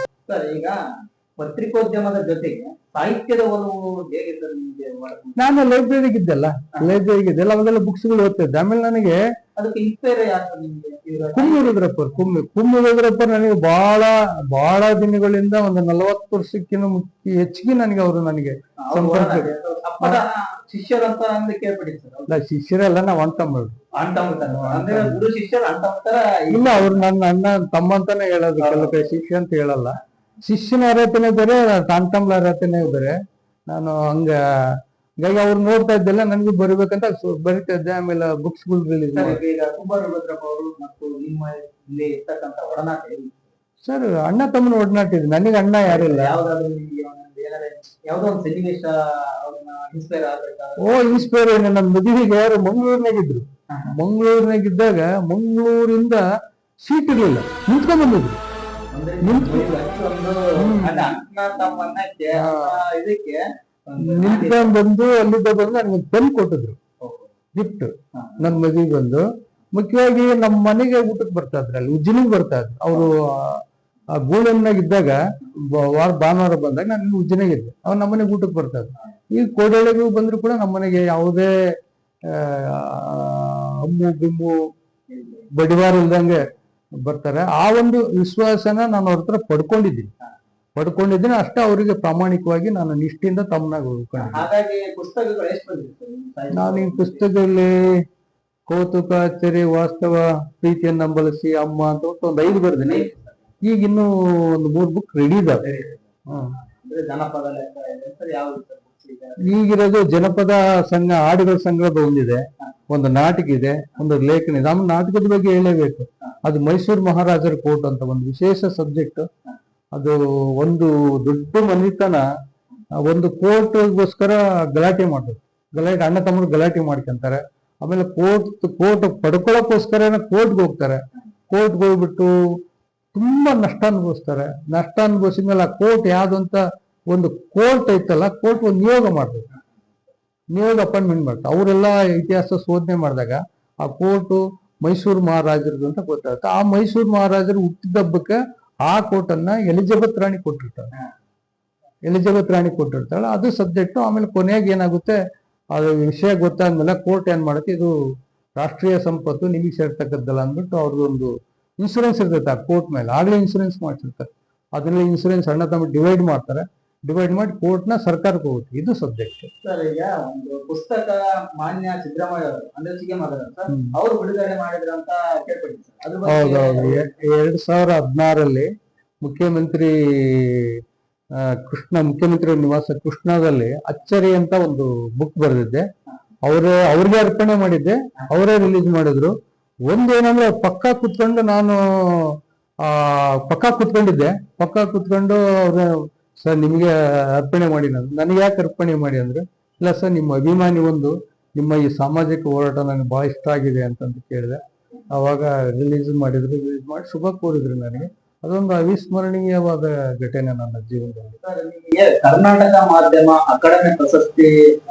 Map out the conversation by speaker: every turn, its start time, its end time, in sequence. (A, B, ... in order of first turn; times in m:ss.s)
0:00.3-0:00.8 A
0:01.4-0:05.4 A
0:05.4-0:09.2 B
0:09.6-0:11.8 A
0:11.3-0:20.2 B
0:18.8-0:22.3 A
0:22.3-0:23.8 B
0:23.9-0:27.0 A
0:24.5-0:25.2 B
0:26.5-0:33.2 B
0:28.6-0:29.0 A
0:33.7-0:39.4 B
0:39.1-0:43.5 A
0:43.8-0:46.3 B
0:45.8-0:51.3 A
0:50.8-0:56.2 B
0:56.8-0:58.4 B
0:58.9-1:04.8 A
0:59.2-0:59.7 B
1:00.6-1:01.1 B
1:02.4-1:02.7 B
1:04.0-1:06.8 B
1:07.0-1:07.3 A
1:07.5-1:13.6 B
1:08.1-1:08.4 A
1:14.2-1:21.5 B
1:22.2-1:24.6 B
1:25.1-1:25.4 A
1:25.5-1:26.4 B
1:27.0-1:30.1 B
1:30.8-1:34.5 B
1:34.2-1:37.2 A
1:36.5-1:37.9 B
1:38.7-1:43.1 B
1:42.7-1:43.3 A
1:43.6-1:45.6 B
1:45.6-1:46.0 A
1:46.3-1:46.6 B
1:46.8-1:49.5 A
1:49.4-1:59.3 B
1:59.9-2:02.3 B
2:03.0-2:12.3 B
2:13.1-2:19.5 B
2:20.5-2:30.9 B
2:32.1-2:35.2 B
2:35.7-2:37.9 B
2:38.6-2:49.5 B
2:49.6-2:57.1 A
2:56.2-2:58.7 B
2:59.2-3:00.8 B
3:01.4-3:05.8 B
3:06.4-3:09.3 B
3:09.9-3:24.6 B
3:25.1-3:31.4 B
3:31.4-3:34.5 A